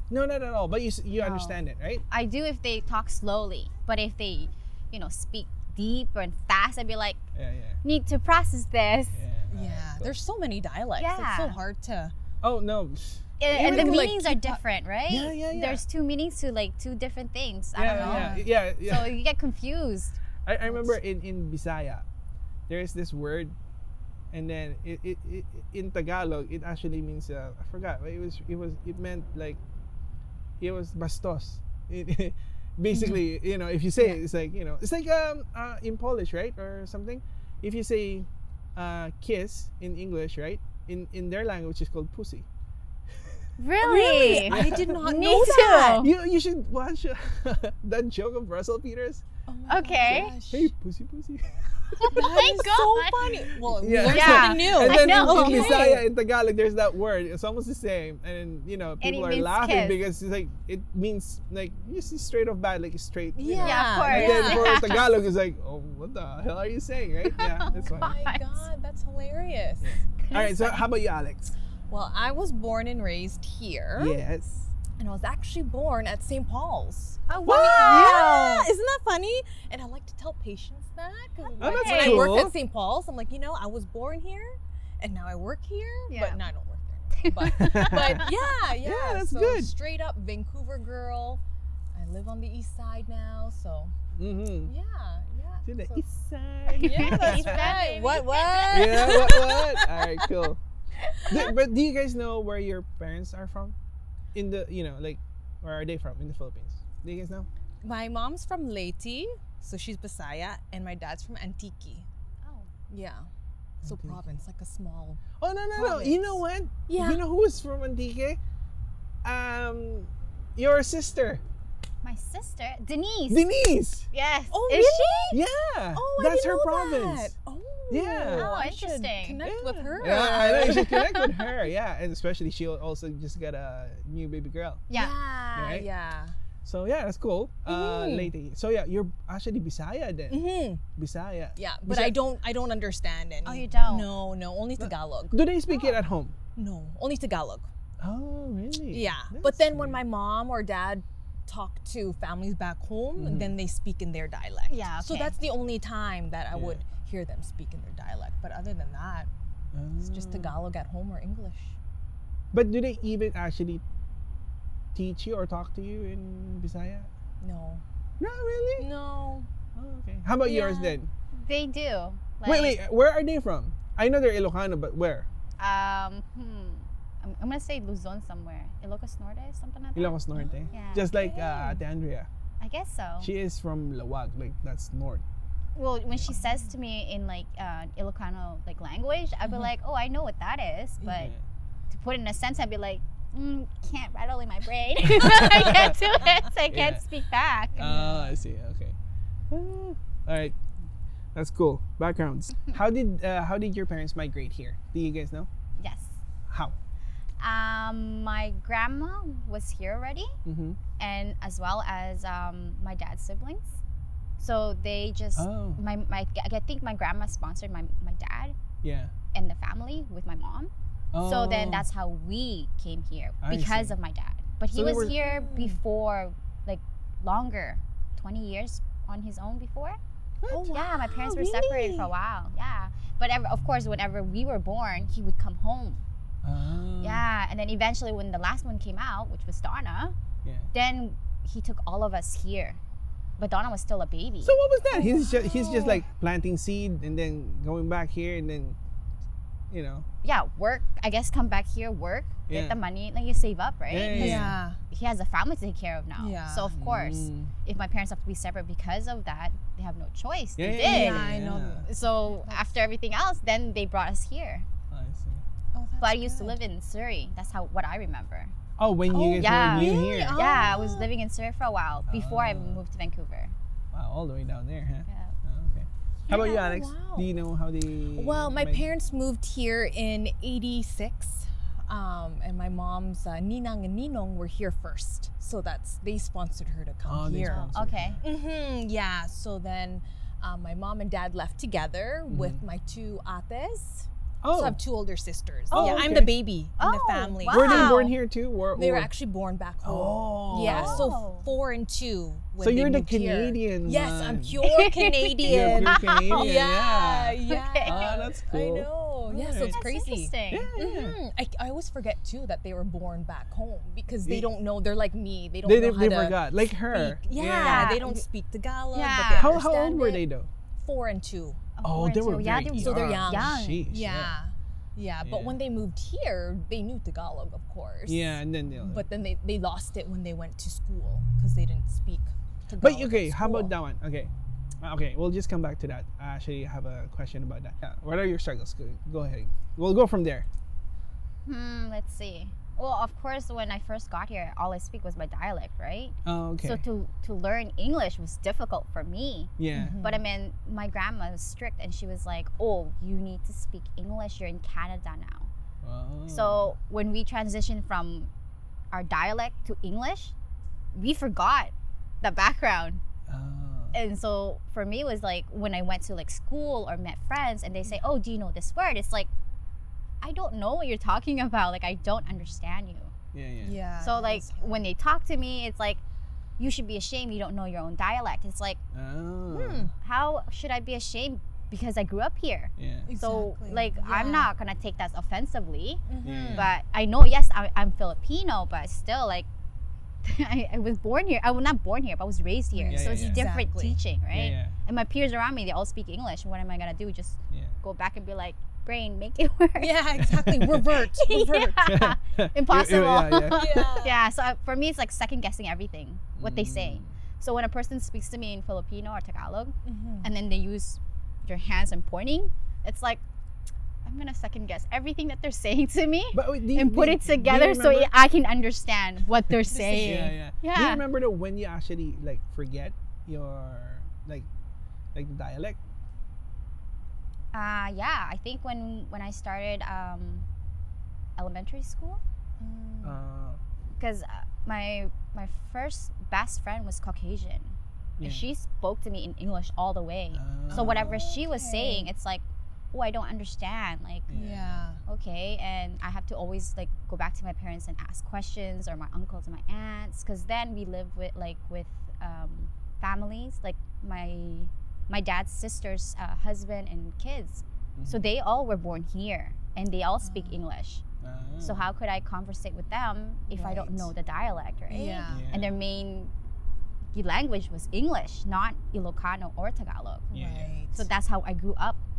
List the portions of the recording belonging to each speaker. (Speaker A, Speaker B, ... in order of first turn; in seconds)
Speaker A: 0.1-2.0, 7.3-7.8, 9.1-10.2, 12.4-14.2, 15.1-15.8, 17.8-19.1, 20.4-22.1, 22.7-23.6, 24.3-29.6, 30.6-42.5, 44.4-45.0, 46.0-49.2, 50.1-52.6, 53.5-68.2, 69.8-71.5, 74.0-74.7, 77.4-78.3, 81.6-82.5, 87.4-89.7, 94.2-94.7, 95.7-97.8, 98.7-100.6, 101.3-103.8, 104.3-107.5, 113.8-114.2, 115.4-118.4, 119.2-121.4, 123.3-124.1, 125.3-127.3, 127.9-128.5, 129.4-134.8, 135.5-135.9, 136.6-142.2, 144.8-146.3, 148.0-150.0, 153.2-153.6, 156.5-156.8, 159.7-160.5, 162.5-163.8, 164.9-167.1, 168.2-168.9, 169.7-171.1, 172.4-175.3, 179.9-182.3, 183.2-185.2, 191.0-191.4, 195.1-196.0, 196.7-197.0, 197.8-199.0, 199.5-200.6, 201.3-205.5, 206.5-206.8, 210.4-210.8, 215.3-215.8, 218.8-219.1, 221.1-221.9, 223.4-223.9, 224.7-225.1, 230.4-230.7, 236.4-237.2, 240.4-240.7, 244.4-248.8, 249.7-250.1, 252.5-252.8, 253.9-254.6, 256.7-257.5, 260.6-261.9, 264.9-265.4, 268.8-270.4, 272.1-272.8, 273.9-278.9, 287.1-288.2, 292.3-292.6, 294.4-294.8, 295.7-296.4, 297.5-299.1, 299.8-301.1, 302.6-304.6, 305.5-309.8, 310.5-311.2, 315.6-318.0, 319.3-320.5, 321.8-324.4, 325.2-325.6, 328.1-329.0, 332.8-334.3, 334.8-340.5, 346.2-346.8, 349.6-350.0, 355.8-356.8, 363.3-364.0, 373.3-373.8, 378.9-379.9, 382.8-383.1, 386.2-386.7, 392.9-393.4, 394.3-394.8, 400.2-400.8, 401.9-403.9, 406.4-407.1, 416.3-418.1, 419.9-424.5, 425.1-425.8, 433.0-433.6, 438.2-438.5, 440.3-441.2, 444.3-445.0, 458.0-458.3, 461.2-461.9, 463.5-464.1, 465.3-465.8, 470.3-470.8
Speaker B: 1.1-7.2, 7.8-9.2, 11.0-11.6, 13.4-20.2, 43.6-46.1, 49.7-50.4, 52.0-53.4, 54.0-56.0, 59.0-60.0, 63.6-65.1, 67.2-68.4, 70.2-70.9, 77.3-78.7, 81.6-82.3, 86.1-86.4, 87.2-88.2, 96.8-99.1, 112.4-112.7, 122.0-123.4, 124.1-125.3, 128.3-129.4, 130.2-131.1, 134.9-135.2, 143.4-144.1, 154.7-155.3, 170.6-172.8, 175.6-180.2, 180.7-181.2, 182.6-183.3, 185.8-191.3, 191.9-197.9, 205.8-206.2, 207.4-210.3, 211.0-213.8, 214.4-218.5, 219.3-230.0, 230.7-236.0, 237.0-240.2, 240.7-242.8, 243.4-244.6, 250.2-264.6, 266.0-268.5, 269.4-273.5, 275.1-275.3, 287.4-288.2, 295.7-296.2, 296.8-298.1, 300.5-301.5, 304.6-306.5, 307.5-308.2, 309.6-310.7, 317.5-318.2, 318.9-319.7, 321.8-323.9, 341.5-355.5, 356.3-358.3, 358.9-360.3, 360.9-363.0, 363.9-369.3, 370.2-373.1, 374.0-376.0, 376.6-378.8, 380.0-389.5, 390.2-400.0, 401.1-413.2, 414.1-421.0, 427.5-430.5, 431.4-432.2, 434.0-444.3, 445.1-461.0, 461.6-466.3, 467.1-470.3, 470.9-472.0
Speaker C: 9.5-12.1, 13.5-14.6, 17.8-18.5, 32.9-33.2, 43.8-46.1, 49.5-50.7, 52.1-56.0, 63.4-64.8, 67.7-70.0, 71.9-74.2, 75.0-91.4, 91.9-94.0, 94.6-96.0, 96.8-100.3, 107.8-112.1, 112.9-113.3, 113.8-115.2, 115.7-117.2, 124.5-125.4, 125.9-131.1, 134.9-136.3, 137.7-138.3, 140.3-140.8, 141.6-146.0, 146.5-147.7, 148.9-159.3, 160.0-161.8, 167.4-167.8, 168.8-169.5, 170.4-170.9, 180.3-181.8, 197.8-198.3, 224.9-225.8, 230.5-232.1, 244.9-246.0, 254.1-254.8, 256.2-256.7, 260.8-262.8, 265.7-266.6, 269.1-271.1, 276.3-277.3, 278.1-287.7, 288.2-298.1, 298.7-320.2, 320.8-321.6, 322.8-333.7, 349.7-350.2, 373.6-374.9, 379.5-379.9, 383.1-384.5, 386.1-386.7, 392.7-394.0, 399.8-401.9, 403.5-404.3, 409.9-410.3, 419.7-420.3, 432.6-433.2, 440.7-442.1, 444.3-445.0, 460.2-460.6, 464.9-465.5, 470.3-471.1